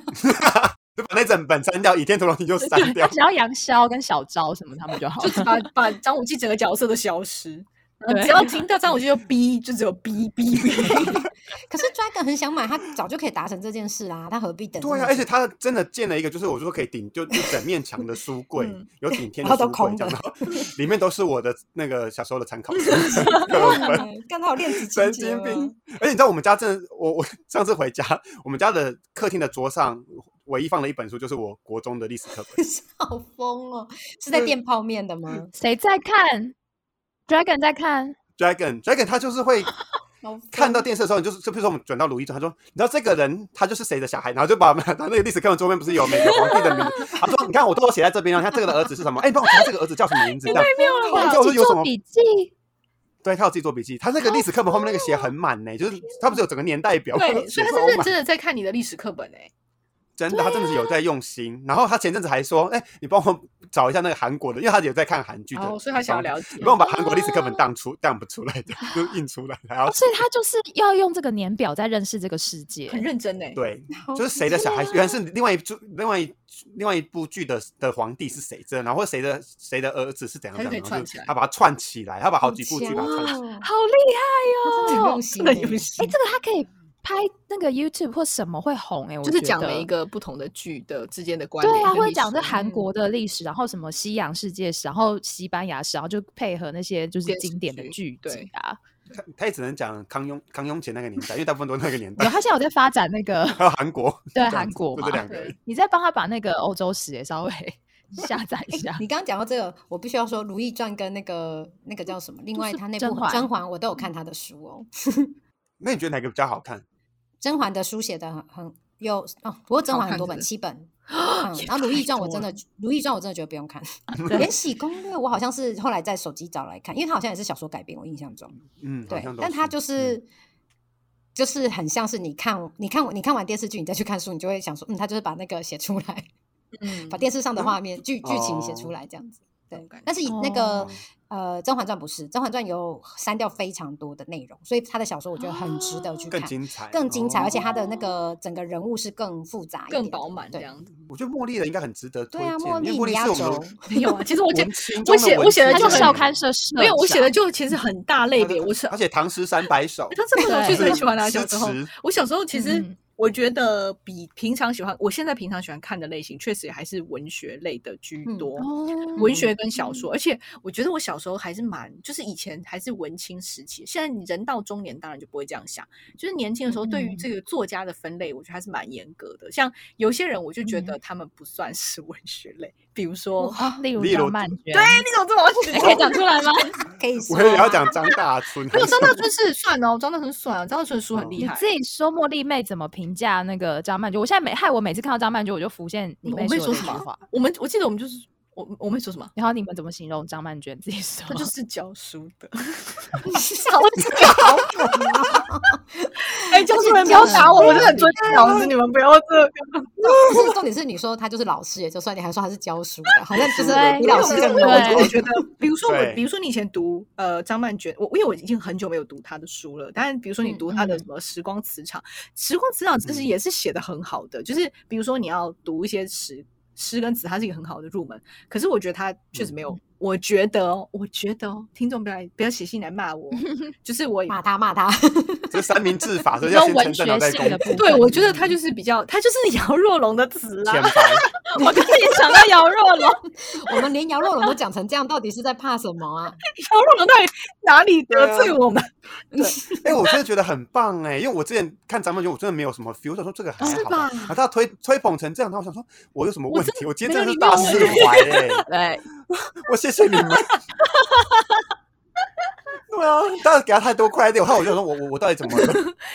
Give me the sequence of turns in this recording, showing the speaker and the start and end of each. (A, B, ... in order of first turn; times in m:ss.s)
0:00.2-0:03.2 A
0:02.6-0:05.6 B
0:05.2-0:11.3 C
0:08.1-0:08.5 B
0:10.9-0:15.3 D
0:14.8-0:24.1 A
0:18.6-0:18.9 C
0:19.1-0:20.7 D
0:22.8-0:23.9 C
0:23.4-0:25.8 D
0:24.9-0:32.6 A
0:32.5-0:35.5 D
0:35.5-0:36.6 B
0:37.3-0:38.2 B
0:38.4-0:39.8 A
0:40.2-0:40.9 D
0:40.5-0:51.9 A
0:46.5-0:47.1 B
0:50.4-0:51.4 C
0:50.5-0:52.5 B
0:50.8-0:51.3 D
0:53.2-0:58.1 A
0:54.2-0:55.3 B
0:57.2-0:59.5 C
1:00.2-1:10.2 A
1:00.3-1:01.0 B
1:05.6-1:06.8 C
1:06.6-1:07.6 B
1:09.9-1:13.0 B
1:12.9-1:13.6 C
1:13.6-1:23.4 A
1:13.9-1:15.0 D
1:14.5-1:15.0 B
1:20.6-1:21.3 C
1:22.4-1:23.7 D
1:22.9-1:25.2 B
1:24.6-1:25.9 D
1:24.9-1:26.2 C
1:26.0-1:29.9 B
1:29.2-1:32.7 C
1:31.6-1:38.8 B
1:37.3-1:38.5 C
1:39.1-1:42.4 A
1:42.2-1:43.6 B
1:43.6-1:45.6 A
1:44.3-1:49.0 B
1:45.3-1:45.6 C
1:48.7-1:55.3 D
1:52.6-1:53.5 B
1:55.8-1:56.8 A
1:57.4-2:10.3 D
1:59.9-2:00.5 C
2:01.1-2:02.5 C
2:04.2-2:04.5 B
2:08.7-2:10.2 A
2:11.4-2:16.3 D
2:16.8-2:17.8 C
2:16.9-2:30.7 D
2:18.2-2:18.9 A
2:19.7-2:20.1 C
2:20.3-2:20.9 B
2:25.4-2:26.2 B
2:26.3-2:27.8 A
2:29.9-2:30.9 C
2:31.0-2:33.7 A
2:32.3-2:34.1 D
2:33.9-2:36.2 C
2:34.5-2:36.4 A
2:35.7-2:37.4 B
2:36.8-2:39.0 C
2:38.4-2:41.9 A
2:40.1-3:03.6 C
2:40.4-2:41.0 B
2:42.5-2:43.0 B
2:48.6-2:50.1 B
2:49.2-2:49.5 D
2:56.7-2:57.2 B
3:00.6-3:01.0 B
3:03.4-3:03.8 D
3:03.5-3:05.0 B
3:04.0-3:04.6 A
3:04.7-3:06.4 C
3:05.7-3:06.8 B
3:05.7-3:06.2 D
3:06.8-3:08.2 D
3:07.3-3:09.2 A
3:08.7-3:11.7 C
3:11.1-3:11.4 A
3:11.4-3:17.2 B
3:16.2-3:19.3 C
3:19.4-3:21.5 B
3:21.3-3:25.0 C
3:23.3-3:23.7 D
3:24.1-3:24.4 A
3:24.3-3:28.6 D
3:26.3-3:30.5 C
3:27.0-3:28.3 B
3:28.3-3:28.6 A
3:30.0-3:35.4 D
3:33.4-3:54.4 C
3:33.6-3:35.1 A
3:33.6-3:35.1 B
3:35.8-3:36.2 A
3:40.7-3:41.1 B
3:43.0-3:43.3 A
3:54.3-3:55.6 D
3:55.5-3:58.4 A
3:56.4-3:58.4 B
3:57.8-4:02.3 C
4:00.6-4:01.3 A
4:01.5-4:03.2 B
4:03.5-4:06.4 D
4:06.6-4:09.6 C
4:08.1-4:08.6 A
4:09.3-4:09.9 D
4:09.8-4:18.7 A
4:13.6-4:14.3 C
4:13.6-4:14.3 D
4:16.5-4:18.5 C
4:17.4-4:19.0 B
4:19.3-4:20.6 A
4:21.1-4:21.4 B
4:22.9-4:25.8 A
4:25.6-4:25.9 C